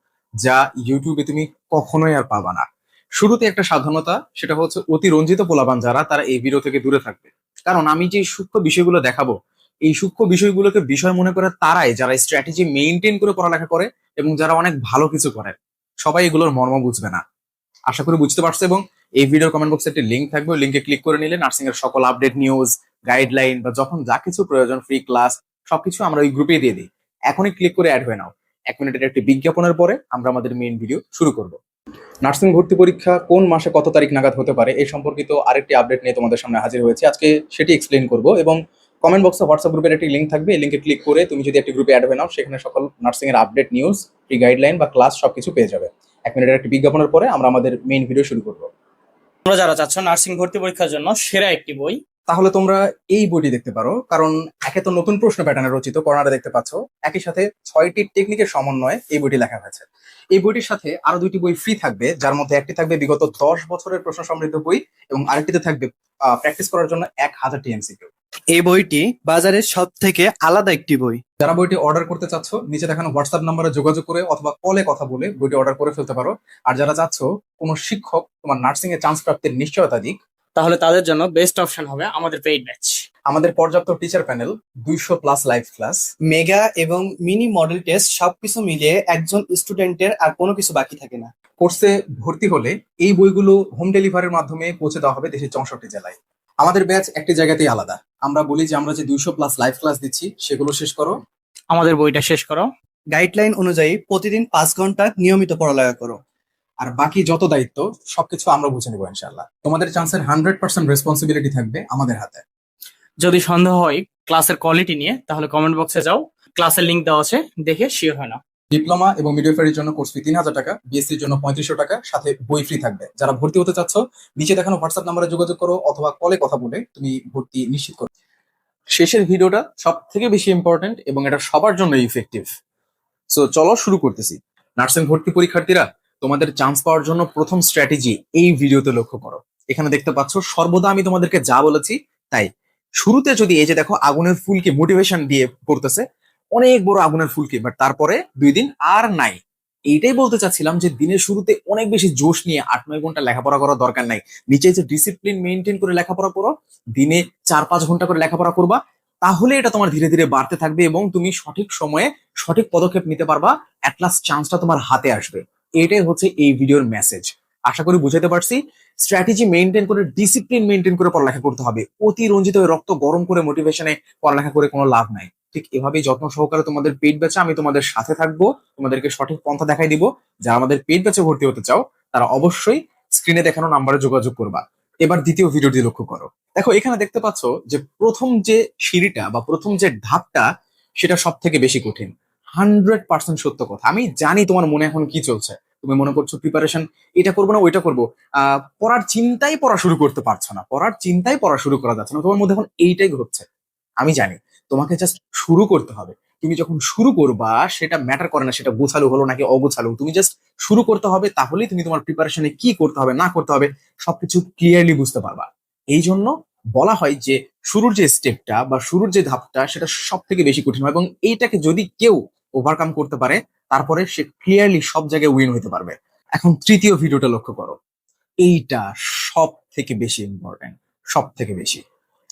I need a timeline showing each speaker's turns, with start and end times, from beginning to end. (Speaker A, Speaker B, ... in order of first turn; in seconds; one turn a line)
Speaker A: 0.4-2.6
Speaker A: 3.2-9.3
Speaker A: 9.9-17.2
Speaker A: 17.9-31.6
Speaker A: 32.2-48.7
Speaker B: 49.5-52.0
Speaker A: 52.3-68.1
Speaker C: 68.5-71.2
Speaker A: 71.4-80.2
Speaker B: 80.5-83.0
Speaker A: 83.3-86.0
Speaker C: 86.2-91.3
Speaker A: 91.6-101.1
Speaker B: 101.7-102.7
Speaker C: 103.1-106.2
Speaker A: 106.8-112.4
Speaker B: 113.2-118.4
Speaker A: 118.7-128.1
Speaker A: 128.9-132.5
Speaker A: 133.3-142.5
Speaker A: 143.0-146.0
Speaker A: 146.5-149.4
Speaker A: 149.9-190.4
Speaker A: 191.0-198.0
Speaker A: 198.8-203.4
Speaker A: 204.0-227.8
Speaker A: 228.4-231.8